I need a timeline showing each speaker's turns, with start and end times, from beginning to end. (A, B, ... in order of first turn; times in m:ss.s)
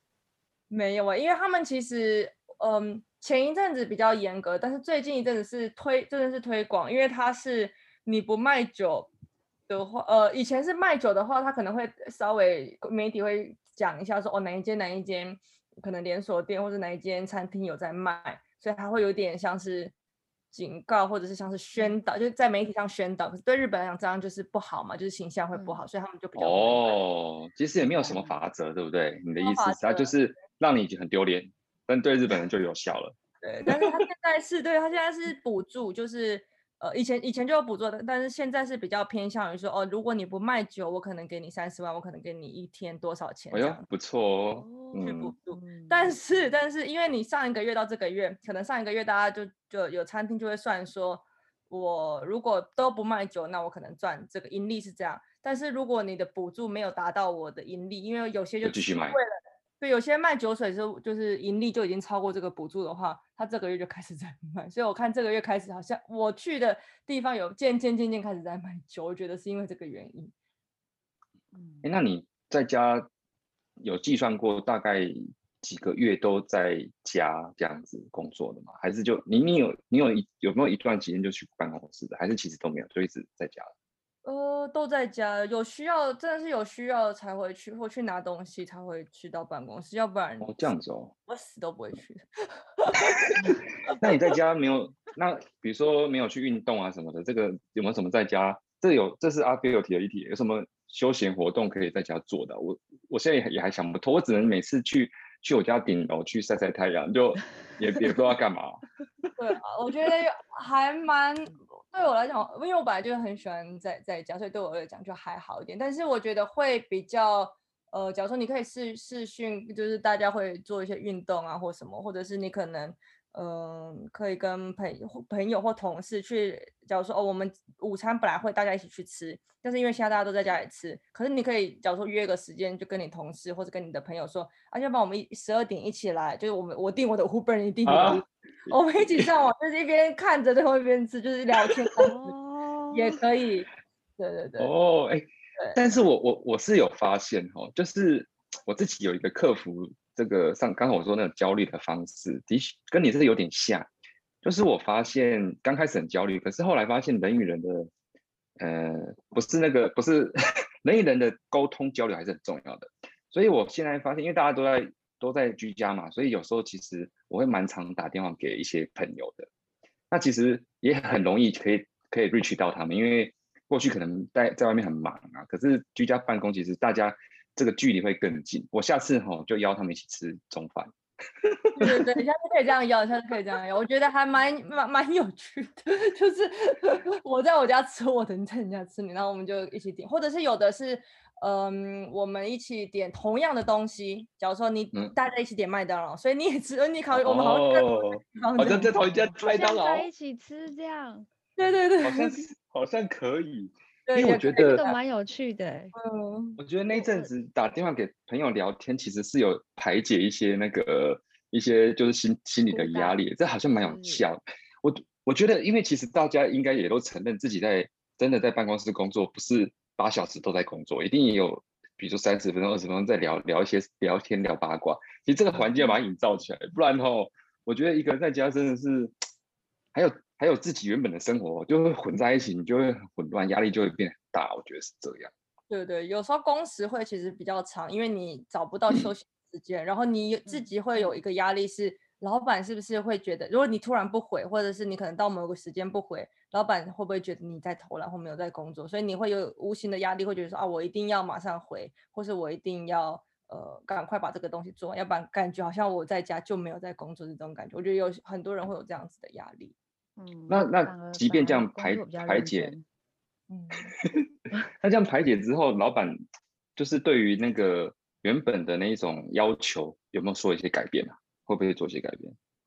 0:00.7-0:09.1 A
0:09.7-0:19.9 A
0:20.5-0:27.0 A
0:25.5-0:25.8 B
0:26.4-0:33.1 C
0:28.0-0:28.4 B
0:29.4-0:30.1 A
0:33.4-0:43.8 A
0:43.5-0:45.3 C
0:44.6-0:46.4 B
0:45.0-1:10.3 A
0:58.6-0:59.2 C
1:11.5-1:11.8 B
1:11.8-1:13.1 C
1:13.8-1:23.7 C
1:24.2-1:30.7 A
1:30.4-1:31.1 C
1:31.3-1:33.6 A
1:33.4-1:48.8 C
1:49.4-2:22.3 A
2:17.9-2:19.3 C
2:22.0-2:23.2 B
2:22.9-2:24.7 A
2:24.6-2:33.9 C
2:34.4-2:37.9 C
2:38.6-2:49.5 C
2:50.1-3:00.9 C
3:01.4-3:02.0 C
3:01.8-3:19.3 A
3:17.1-3:20.1 C
3:19.4-3:21.3 B
3:21.6-3:22.4 A
3:22.0-3:24.8 C
3:24.1-3:25.0 A
3:24.6-3:25.9 B
3:25.9-3:26.6 A
3:26.6-3:49.1 C
3:26.9-3:27.3 B
3:32.7-3:34.2 B
3:45.6-3:46.0 B
3:49.9-3:55.3 C
3:55.7-4:19.7 A
4:00.4-4:01.2 B
4:20.2-4:22.8 B
4:20.5-4:22.7 C
4:23.5-4:23.9 A
4:24.8-4:26.2 C
4:26.8-4:32.4 C